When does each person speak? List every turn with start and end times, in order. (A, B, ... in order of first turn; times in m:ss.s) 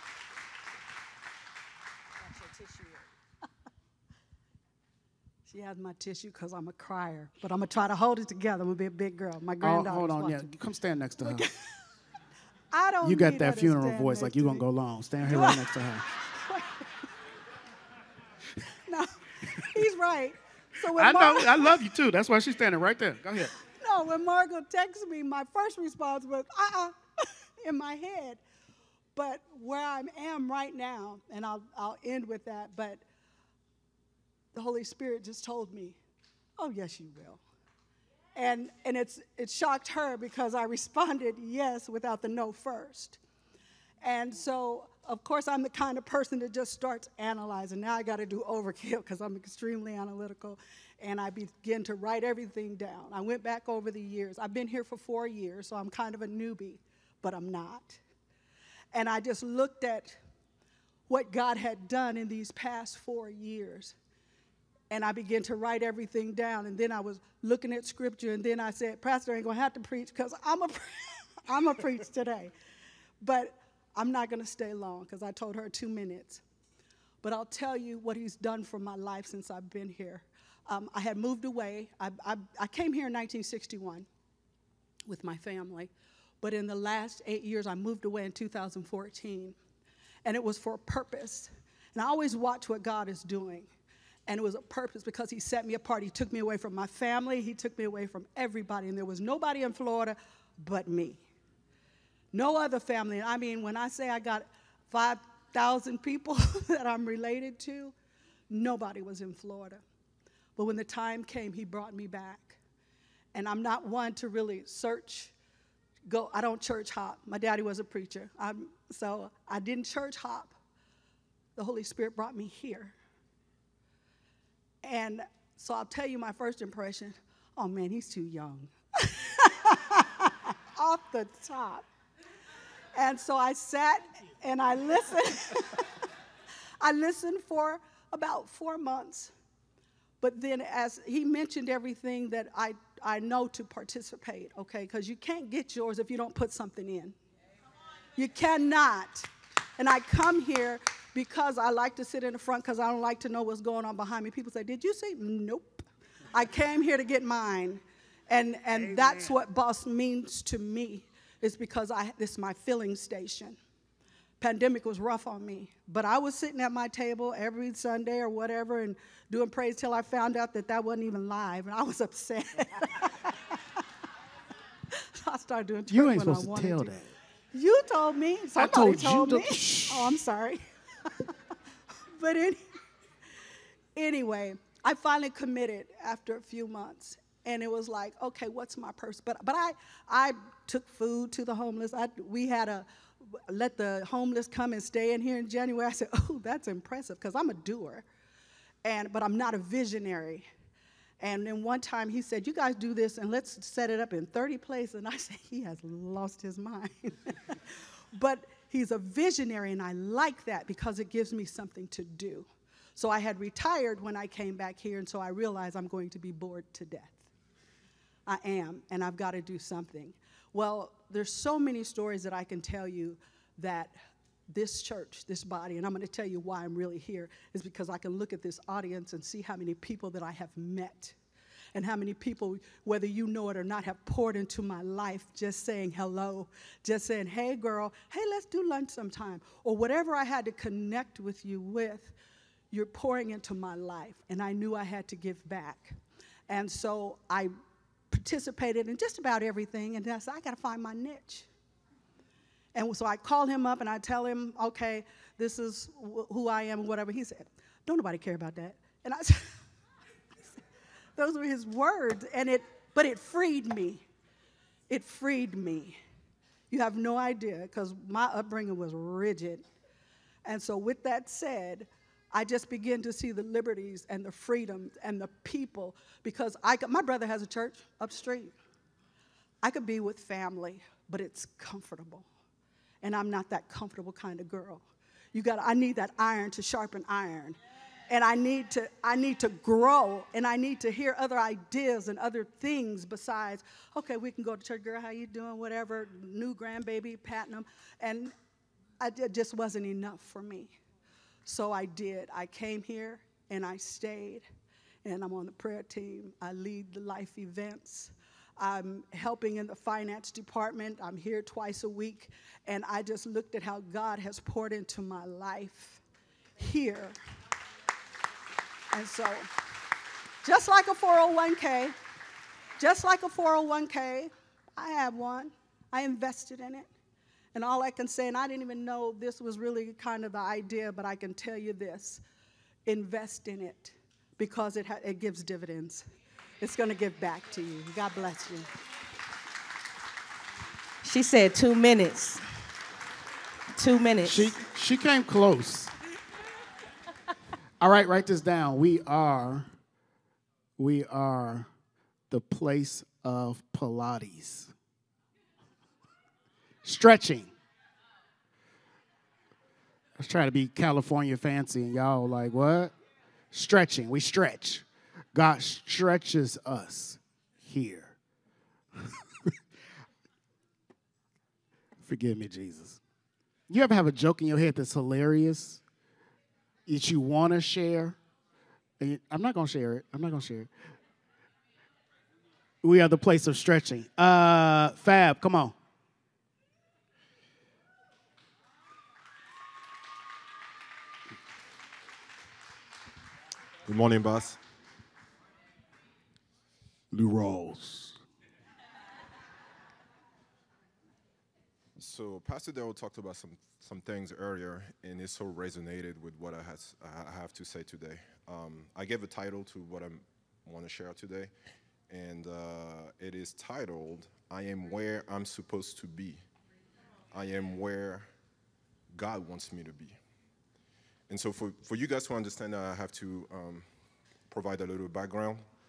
0:05.5-0:10.5 A
0:09.6-0:11.5 B
0:11.2-0:11.5 A
0:12.7-0:14.6 A
0:13.0-0:16.0 B
0:15.3-0:15.8 A
0:16.4-0:16.8 A
0:18.9-0:21.8 A
0:21.0-0:23.5 B
0:23.8-0:28.4 A
0:29.2-0:33.0 A
0:34.5-0:36.0 A
0:36.6-0:37.4 A
0:38.4-0:43.2 A
0:44.0-0:58.0 A
0:58.9-1:00.2 A
1:01.1-1:04.0 A
1:04.9-1:12.5 A
1:13.2-1:16.4 A
1:17.2-1:24.1 A
1:25.1-1:29.6 A
1:30.2-1:33.7 A
1:34.3-1:41.2 A
1:42.3-1:48.0 A
1:48.5-1:49.8 A
1:50.6-1:52.6 A
1:53.3-1:55.3 A
1:56.1-2:00.6 A
2:01.6-2:03.0 A
2:04.8-2:11.9 A
2:13.0-2:16.0 A
2:16.8-2:19.3 A
2:20.2-2:27.2 A
2:28.2-2:43.6 A
2:38.7-2:39.4 B
2:44.4-2:53.8 A
2:54.9-2:56.9 A
2:55.9-2:57.1 B
2:57.5-3:01.3 A
2:58.6-3:00.1 B
3:02.2-3:02.6 A
3:04.0-3:18.0 A
3:18.8-3:20.5 A
3:21.2-3:37.3 A
3:38.3-3:44.0 A
3:44.5-3:51.2 A
3:51.8-4:02.1 A
4:02.7-4:06.0 A
4:06.5-4:07.5 A
4:08.1-4:11.5 A
4:12.8-4:19.4 A
4:21.2-4:24.0 A
4:24.9-4:26.0 A
4:26.7-4:29.6 A
4:30.4-4:38.5 A
4:39.6-4:42.3 A
4:43.0-4:47.6 A
4:48.1-4:58.3 A
4:59.0-5:00.7 A
5:01.4-5:04.4 A
5:05.0-5:16.0 A
5:16.6-5:17.2 A
5:18.9-5:19.5 A
5:20.4-5:22.0 A
5:22.8-5:26.9 A
5:27.5-5:32.2 A
5:32.9-5:36.0 A
5:36.6-5:38.7 A
5:41.0-5:42.4 C
5:43.8-5:44.5 C
5:44.2-5:45.9 B
5:47.8-5:49.7 B
5:50.8-5:51.7 B
5:52.3-5:54.7 B
5:56.8-5:57.5 B
6:00.2-6:02.9 B
6:03.5-6:08.2 B
6:09.0-6:09.5 B
6:12.0-6:13.0 B
6:13.7-6:15.8 B
6:16.9-6:18.2 B
6:19.0-6:20.7 B
6:22.8-6:25.8 B
6:33.8-6:34.6 D
6:37.1-6:38.2 B
6:42.0-6:51.5 D
6:52.1-6:56.4 D
6:57.3-6:58.3 D
6:59.1-7:00.2 D
7:01.3-7:03.9 D
7:04.5-7:05.6 D